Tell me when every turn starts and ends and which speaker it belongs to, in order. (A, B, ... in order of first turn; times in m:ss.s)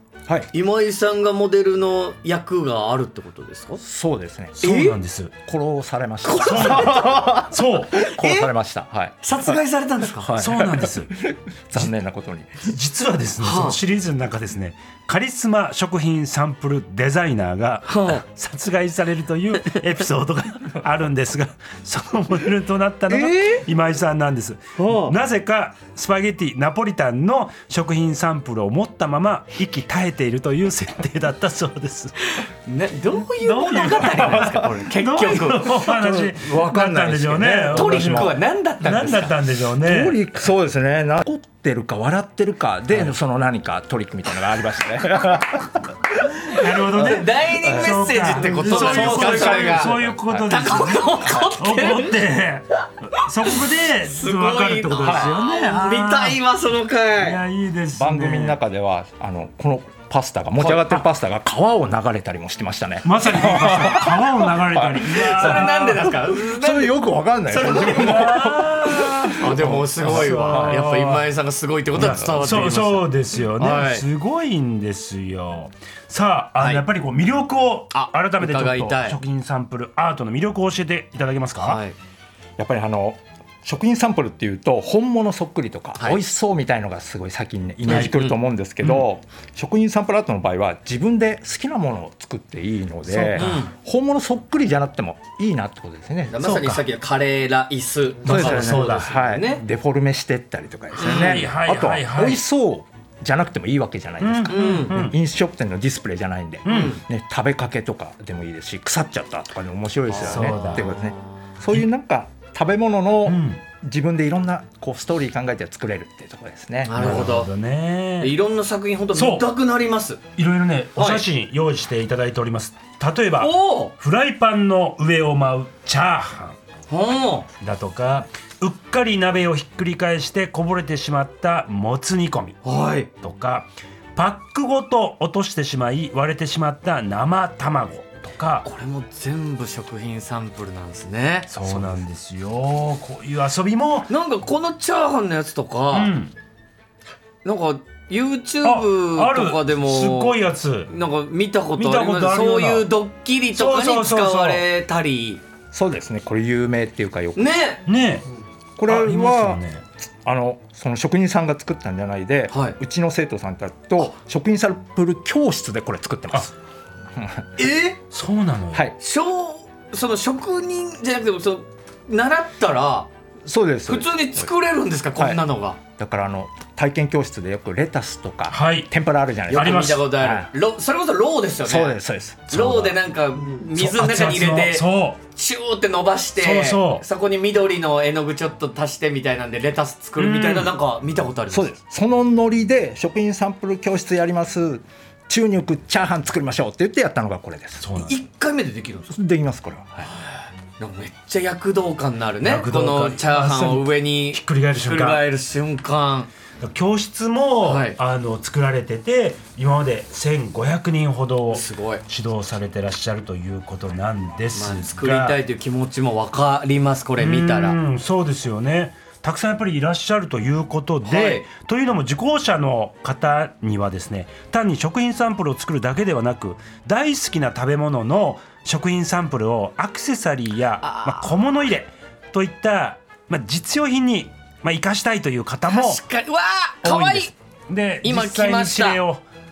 0:00.5-0:03.8 A
0:03.8-0:04.8 B
0:04.6-0:05.3 C
0:04.6-0:04.9 A
0:05.5-0:09.6 B
0:06.2-0:07.3 A
0:06.4-0:08.0 C
0:08.0-0:08.5 A
0:09.2-0:10.3 A
0:10.1-0:12.7 B
0:10.4-0:11.1 C
0:12.6-0:32.1 C
0:13.4-0:13.8 A
0:17.8-0:18.2 A
0:23.1-0:23.6 A
0:24.8-0:25.2 A
0:32.6-0:35.9 A
0:33.3-0:40.2 C
0:35.9-0:38.3 B
0:37.7-0:39.4 A
0:39.8-0:45.9 B
0:46.4-0:56.4 C
0:46.5-0:52.2 A
0:47.6-0:50.5 B
0:53.2-0:57.4 A
0:55.0-0:55.3 B
0:57.2-0:58.6 C
0:57.9-1:10.8 B
1:00.6-1:01.0 A
1:03.0-1:06.1 C
1:05.0-1:07.0 A
1:07.5-1:11.3 C
1:07.6-1:08.1 A
1:09.4-1:14.0 A
1:11.9-1:21.8 C
1:16.6-1:16.8 A
1:17.9-1:19.2 A
1:21.6-1:22.0 A
1:22.6-1:36.4 B
1:27.8-1:28.4 A
1:27.9-1:28.1 C
1:33.1-1:33.6 C
1:33.3-1:33.7 A
1:36.3-1:39.6 A
1:36.4-1:36.8 C
1:38.2-1:39.1 C
1:38.2-1:57.2 B
1:41.0-1:41.4 A
1:41.0-1:42.4 C
1:44.2-1:45.2 C
1:44.5-1:45.0 A
1:46.6-1:47.0 C
1:46.7-1:47.0 A
1:50.1-1:51.5 A
1:50.2-1:50.9 C
1:53.2-1:53.6 C
1:56.8-1:57.5 A
1:57.0-1:58.4 C
1:58.2-2:00.2 A
1:59.1-1:59.4 C
2:00.4-2:06.6 C
2:01.0-2:01.2 A
2:03.4-2:03.9 A
2:06.9-2:07.5 A
2:07.6-2:12.6 C
2:12.6-2:13.1 A
2:13.2-2:18.6 C
2:18.6-2:22.0 A
2:21.5-2:24.1 C
2:24.1-2:26.1 A
2:25.9-2:26.3 C
2:27.4-2:35.4 A
2:28.6-2:30.9 C
2:31.8-2:32.9 C
2:33.5-2:34.6 C
2:35.7-2:37.5 B
2:37.4-2:37.8 A
2:37.8-2:38.3 C
2:38.8-2:46.5 B
2:38.8-2:39.8 C
2:42.5-2:42.8 A
2:47.1-2:47.5 B
2:47.6-2:48.0 A
2:48.1-2:48.9 C
2:49.0-2:53.1 A
2:53.4-2:54.5 B
2:53.9-2:55.8 A
2:55.2-2:55.4 B
2:56.0-3:00.5 B
2:58.5-2:58.9 C
2:59.5-3:00.1 C
2:59.5-3:02.0 A
3:01.6-3:02.7 B
3:02.5-3:11.8 A
3:02.6-3:02.9 C
3:03.7-3:05.2 C
3:06.4-3:07.0 C
3:10.2-3:10.7 C
3:11.5-3:17.9 B
3:17.8-3:18.2 C
3:18.0-3:19.1 A
3:19.1-3:20.1 B
3:20.8-3:26.3 A
3:22.4-3:25.2 C
3:26.6-3:35.4 C
3:27.6-3:28.0 A
3:31.5-3:32.0 A
3:34.5-3:37.8 A
3:37.2-3:56.0 C
3:41.0-3:41.4 A
3:50.8-3:51.3 A
3:55.7-3:57.3 A
3:56.8-3:59.2 C
3:58.0-3:59.0 A